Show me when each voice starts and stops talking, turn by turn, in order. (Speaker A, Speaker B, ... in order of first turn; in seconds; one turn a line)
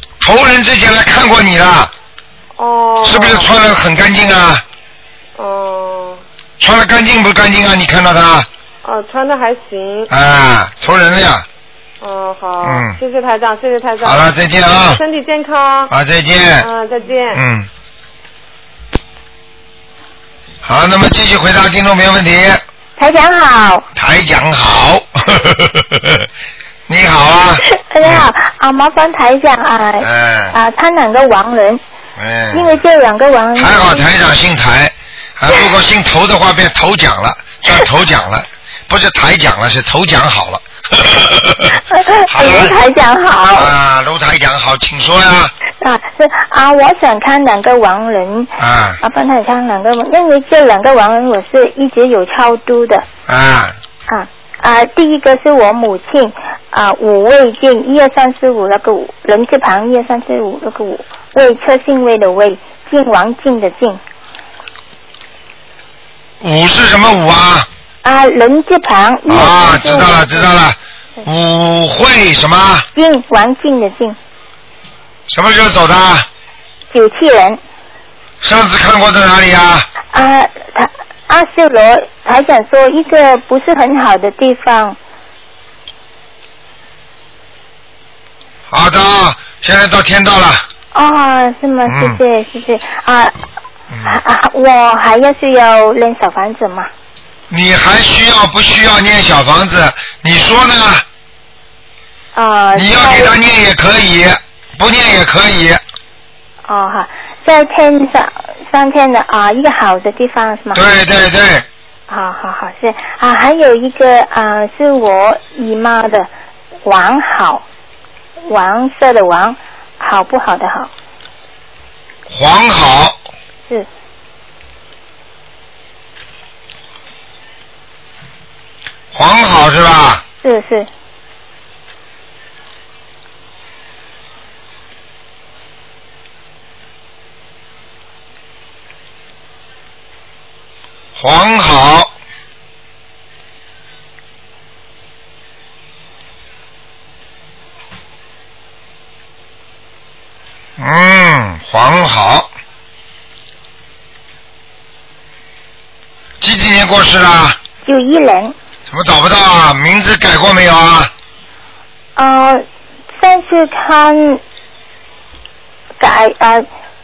Speaker A: 0.2-1.9
Speaker B: 2.6-3.5
Speaker A: 3.0-4.6
Speaker B: 5.4-6.2
Speaker A: 6.6-8.5
Speaker B: 8.8-10.1
Speaker A: 10.1-11.4
Speaker B: 12.0-14.3
Speaker A: 12.6-13.0
Speaker A: 14.0-15.0
Speaker B: 14.8-15.9
Speaker A: 15.9-16.7
Speaker B: 16.6-17.4
Speaker A: 17.3-17.7
Speaker A: 20.6-22.6
Speaker C: 23.0-23.9
Speaker A: 23.9-26.3
Speaker A: 26.9-28.2
Speaker C: 27.6-31.8
Speaker A: 30.0-30.5
Speaker A: 32.2-32.8
Speaker C: 32.5-34.1
Speaker A: 33.6-41.8
Speaker C: 41.9-43.7
Speaker A: 42.3-42.8
Speaker A: 43.5-45.5
Speaker C: 45.8-53.0
Speaker A: 48.6-49.0
Speaker A: 53.3-53.7
Speaker C: 54.1-64.0
Speaker A: 66.4-67.7
Speaker C: 68.0-70.5
Speaker A: 69.3-72.9
Speaker C: 72.9-74.2
Speaker A: 75.3-76.3
Speaker C: 76.9-77.6
Speaker A: 78.4-79.9
Speaker C: 80.1-85.0
Speaker A: 88.7-90.6
Speaker C: 90.9-93.3
Speaker A: 91.9-92.2
Speaker C: 94.0-96.9
Speaker A: 97.5-101.0
Speaker C: 102.3-103.3
Speaker A: 102.7-105.8
Speaker C: 106.7-110.8
Speaker A: 110.7-111.7
Speaker C: 112.1-116.3
Speaker C: 116.8-117.6
Speaker C: 118.5-120.9
Speaker A: 122.3-123.2
Speaker A: 129.1-130.2
Speaker C: 130.4-130.9
Speaker A: 141.2-142.1
Speaker A: 150.8-152.5
Speaker A: 156.4-157.6
Speaker C: 157.8-158.5
Speaker A: 158.9-161.1
Speaker C: 162.2-162.6
Speaker C: 163.2-164.4
Speaker C: 166.0-166.7